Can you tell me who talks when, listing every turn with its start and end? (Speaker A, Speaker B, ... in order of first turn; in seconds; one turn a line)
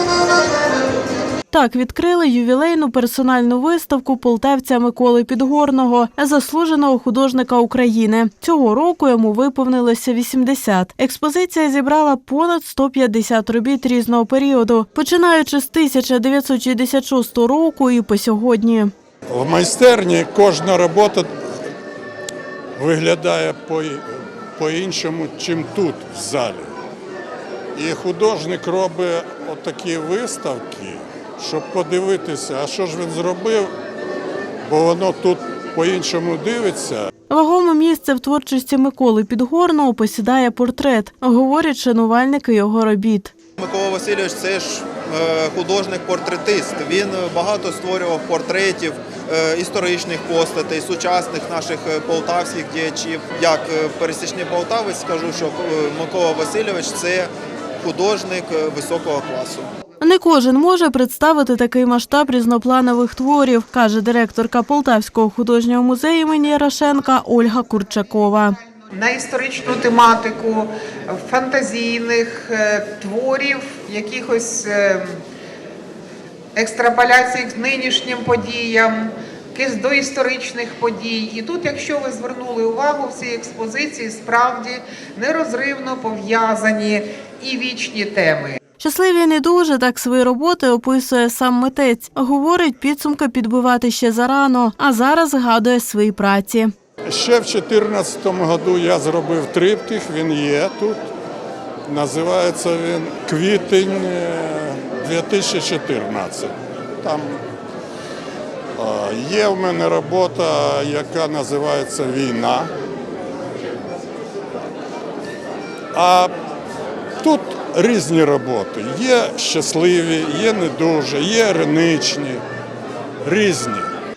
Speaker A: 1.5-18.9
Speaker B: 19.3-21.3
Speaker B: 22.8-26.7
Speaker B: 27.8-33.7
Speaker B: 34.7-37.1
Speaker A: 37.3-43.3
Speaker C: 43.6-59.7
Speaker A: 60.0-68.6
Speaker D: 68.9-75.2
Speaker D: 76.6-88.6
Speaker A: 88.8-96.7
Speaker B: 97.1-101.0
Speaker B: 101.9-107.4
Speaker B: 108.8-112.7
Speaker B: 115.9-116.3
Speaker B: 117.2-122.4
Speaker B: 123.2-123.9